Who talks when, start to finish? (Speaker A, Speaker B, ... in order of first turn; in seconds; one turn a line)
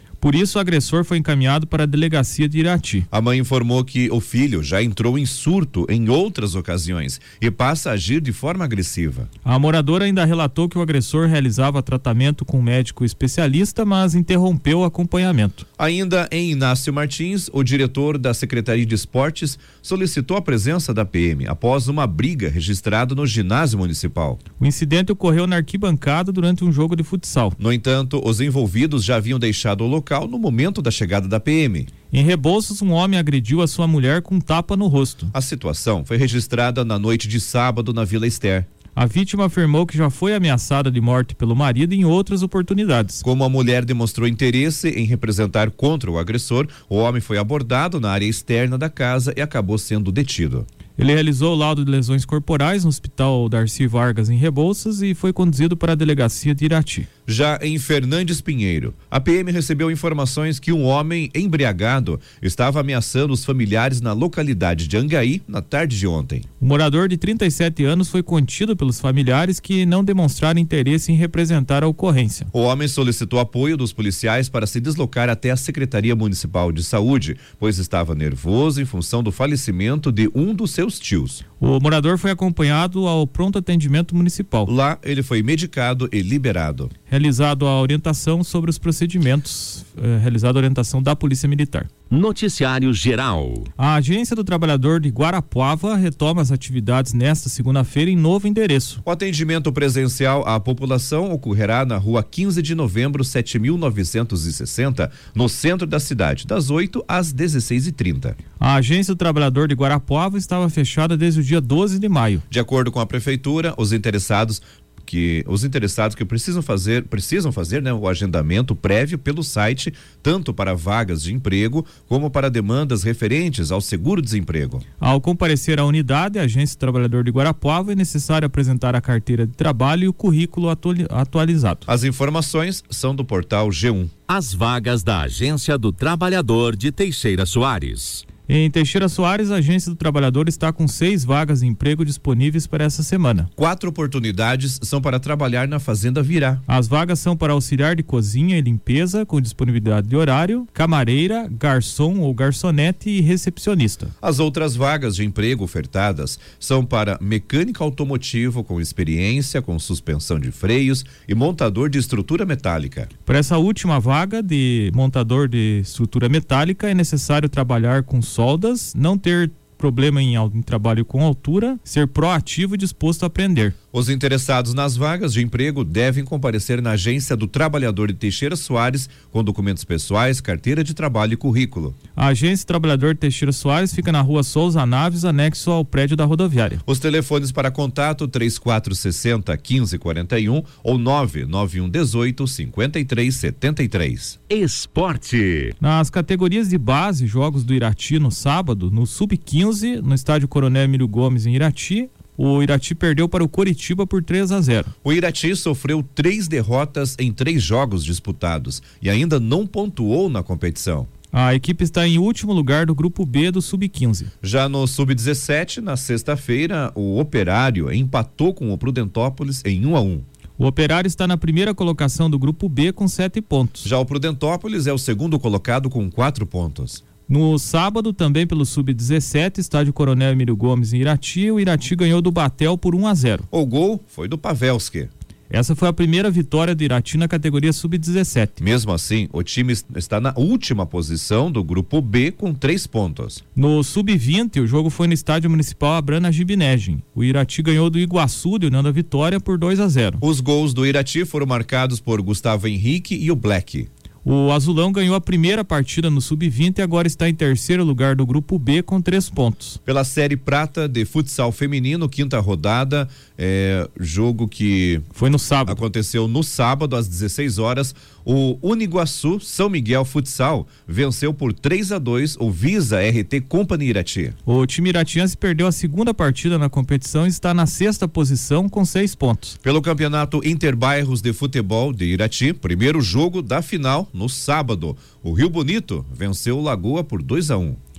Speaker A: 0.2-3.1
Speaker B: 3.1-9.3
Speaker A: 9.4-15.6
Speaker B: 15.8-24.4
Speaker A: 24.6-27.6
Speaker B: 27.6-31.9
Speaker A: 32.1-35.3
Speaker B: 35.3-38.7
Speaker A: 39.0-43.2
Speaker B: 43.2-50.7
Speaker A: 51.0-57.1
Speaker B: 57.3-66.4
Speaker A: 66.6-72.5
Speaker B: 72.5-81.4
Speaker A: 81.6-84.7
Speaker B: 84.7-86.9
Speaker A: 87.1-91.9
Speaker C: 92.1-93.7
Speaker A: 93.8-99.0
Speaker B: 99.0-108.4
Speaker A: 108.6-112.4
Speaker B: 112.5-124.8
Speaker A: 125.0-131.8
Speaker B: 131.9-134.1
Speaker C: 134.3-138.2
Speaker A: 138.5-143.5
Speaker B: 143.6-146.6
Speaker A: 146.7-154.1
Speaker B: 154.2-163.1
Speaker A: 163.2-173.8
Speaker B: 173.9-181.9
Speaker A: 182.2-186.8
Speaker B: 186.8-194.4
Speaker C: 194.5-195.7
Speaker A: 195.8-204.9
Speaker B: 205.0-211.1
Speaker A: 211.3-214.3
Speaker B: 214.4-220.2
Speaker A: 220.6-223.9
Speaker B: 223.8-227.0
Speaker A: 227.3-233.4
Speaker B: 233.5-235.1
Speaker A: 235.5-238.6
Speaker B: 238.6-243.4
Speaker A: 243.6-250.2
Speaker B: 250.2-253.9
Speaker A: 254.2-259.8
Speaker B: 259.9-265.1
Speaker A: 265.1-265.8
Speaker B: 265.7-274.4
Speaker A: 274.4-279.6
Speaker B: 279.6-287.8